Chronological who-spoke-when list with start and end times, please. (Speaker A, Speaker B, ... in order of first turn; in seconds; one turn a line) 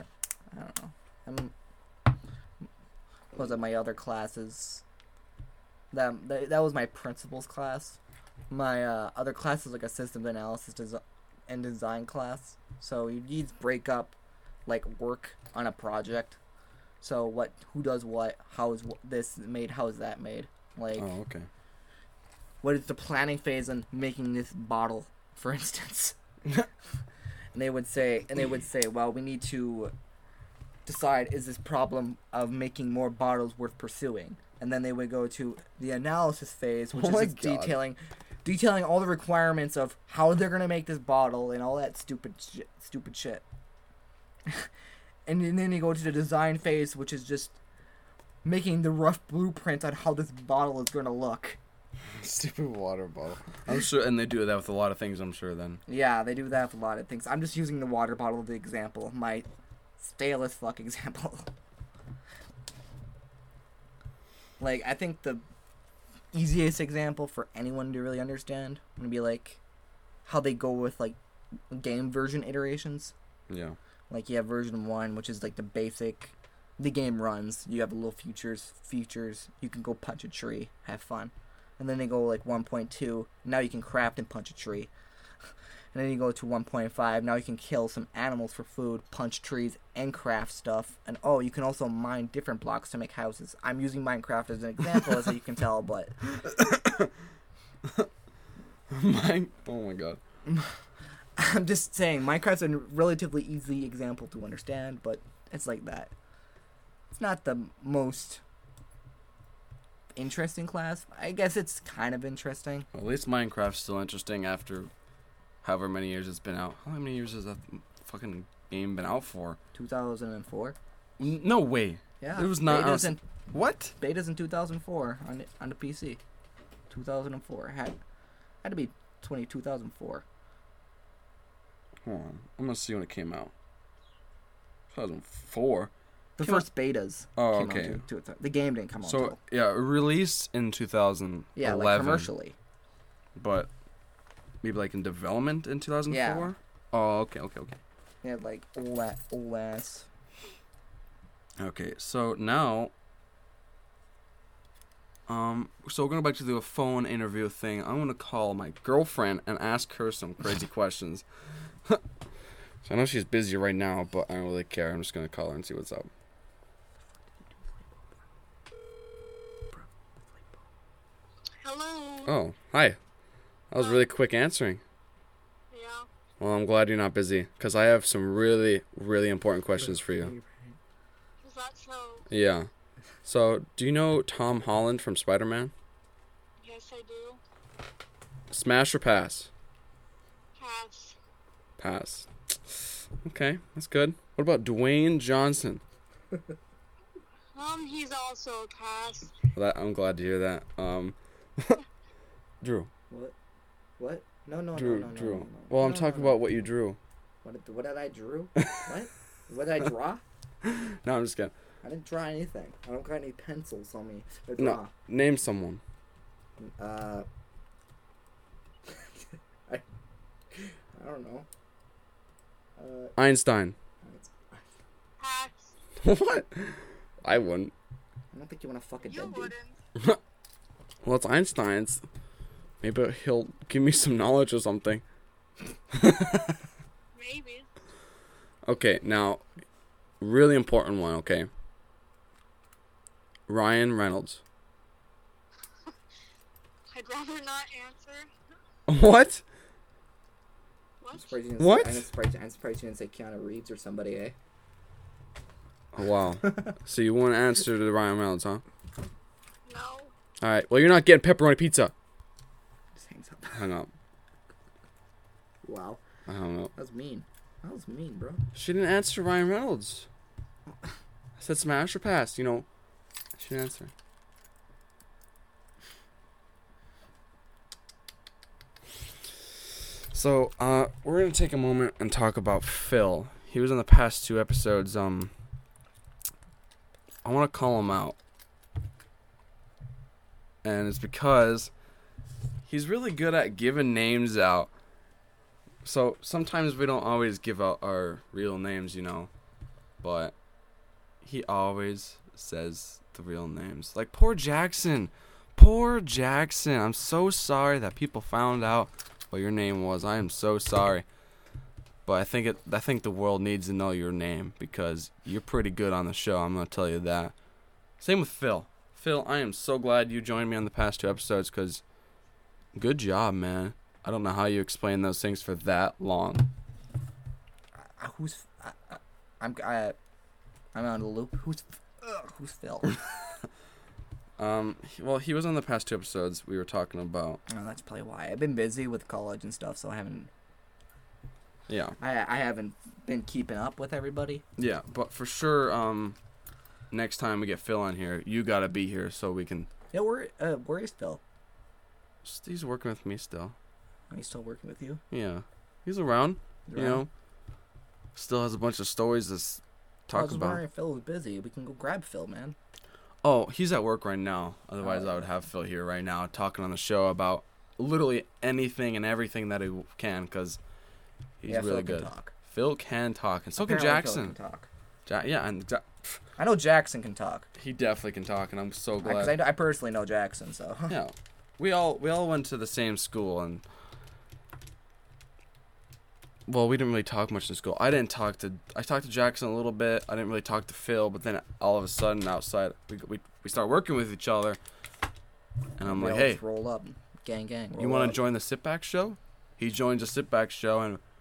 Speaker A: 0.5-1.5
Speaker A: 3.3-4.8
Speaker A: 5.9-8.0
Speaker A: 8.5-14.2
Speaker A: 14.7-16.4
Speaker A: 17.0-21.1
Speaker B: 21.0-21.5
Speaker A: 22.6-26.2
Speaker A: 27.5-29.9
Speaker A: 30.9-43.4
Speaker B: 36.9-37.8
Speaker A: 45.3-47.6
Speaker A: 48.4-51.6
Speaker B: 52.1-55.8
Speaker A: 55.9-59.5
Speaker A: 60.0-61.5
Speaker A: 64.6-65.4
Speaker A: 66.3-69.6
Speaker A: 70.2-71.2
Speaker A: 71.7-73.1
Speaker B: 73.5-73.8
Speaker A: 74.1-84.9
Speaker A: 85.9-96.2
Speaker B: 96.3-97.1
Speaker B: 97.8-98.1
Speaker B: 98.9-100.2
Speaker A: 101.4-106.1
Speaker A: 107.1-108.4
Speaker A: 110.2-112.9
Speaker B: 112.9-114.9
Speaker B: 115.6-119.6
Speaker A: 119.7-120.8
Speaker B: 121.2-124.0
Speaker A: 122.2-123.2
Speaker A: 124.0-126.2
Speaker A: 126.9-128.0
Speaker A: 128.6-130.2
Speaker B: 132.1-133.5
Speaker B: 134.9-136.7
Speaker A: 136.4-139.4
Speaker B: 137.4-138.0
Speaker B: 139.0-142.3
Speaker A: 141.6-142.6
Speaker B: 143.3-143.7
Speaker B: 144.6-147.8
Speaker A: 146.1-146.5
Speaker A: 148.2-150.1
Speaker B: 151.6-152.9
Speaker B: 155.3-161.2
Speaker B: 162.8-166.1
Speaker A: 167.4-168.1
Speaker C: 171.6-172.3
Speaker B: 172.3-173.0
Speaker B: 173.7-174.8
Speaker C: 173.8-174.1
Speaker C: 175.7-176.1
Speaker B: 176.4-180.3
Speaker A: 180.1-180.5
Speaker C: 181.4-182.3
Speaker B: 182.3-182.7
Speaker B: 183.2-185.7
Speaker C: 186.6-187.4
Speaker B: 188.5-189.5
Speaker C: 190.6-191.2
Speaker B: 191.8-195.8
Speaker C: 197.6-199.3
Speaker B: 199.6-201.8
Speaker B: 202.6-202.9
Speaker A: 203.1-203.3
Speaker A: 204.0-206.5
Speaker B: 204.8-207.0
Speaker A: 207.4-210.2
Speaker B: 210.6-211.5
Speaker A: 211.8-214.9
Speaker B: 214.6-215.8
Speaker A: 216.6-217.3
Speaker A: 220.5-221.5
Speaker A: 222.8-223.2
Speaker B: 223.2-223.8
Speaker A: 224.0-224.7
Speaker C: 225.2-225.7
Speaker B: 226.0-227.7
Speaker A: 228.3-229.6
Speaker C: 229.1-229.8
Speaker B: 231.0-232.0
Speaker B: 232.8-235.0
Speaker B: 235.9-236.6
Speaker C: 237.1-237.7
Speaker B: 238.7-239.4
Speaker B: 240.2-241.5
Speaker B: 243.5-244.4
Speaker C: 246.9-248.3
Speaker B: 248.9-249.4
Speaker C: 251.0-251.4
Speaker A: 251.1-254.3
Speaker B: 251.6-252.1
Speaker B: 255.9-258.6
Speaker A: 256.4-256.7
Speaker C: 259.7-260.1
Speaker B: 260.4-261.9
Speaker A: 263.0-263.6
Speaker B: 263.5-263.9
Speaker A: 265.6-266.0
Speaker B: 266.3-266.7
Speaker A: 266.7-268.4
Speaker B: 268.5-270.1
Speaker B: 271.4-272.7
Speaker B: 273.4-273.9
Speaker B: 280.1-285.3
Speaker B: 287.2-288.2
Speaker B: 290.6-291.7
Speaker B: 292.6-294.7
Speaker B: 295.8-299.3
Speaker B: 300.0-300.3
Speaker B: 301.2-311.1
Speaker B: 312.1-317.3
Speaker B: 318.0-321.8
Speaker B: 322.7-326.5
Speaker A: 327.8-330.0
Speaker A: 330.7-333.0
Speaker B: 334.4-337.4
Speaker A: 337.5-340.3
Speaker B: 341.7-342.0
Speaker A: 342.0-344.4
Speaker B: 344.6-346.2
Speaker B: 346.9-349.7
Speaker A: 349.9-351.2
Speaker B: 352.2-353.6
Speaker A: 354.1-355.0
Speaker B: 355.1-357.1
Speaker A: 356.7-357.1
Speaker B: 358.1-360.6
Speaker A: 360.1-362.6
Speaker B: 363.2-370.6
Speaker A: 364.8-365.3
Speaker B: 371.4-374.4
Speaker A: 371.5-372.3
Speaker A: 373.6-374.7
Speaker B: 375.1-376.1
Speaker A: 376.4-377.5
Speaker B: 377.6-379.4
Speaker A: 379.0-381.0
Speaker B: 380.9-383.6
Speaker B: 386.5-394.6
Speaker B: 395.8-396.4
Speaker A: 395.8-398.2
Speaker B: 397.8-401.0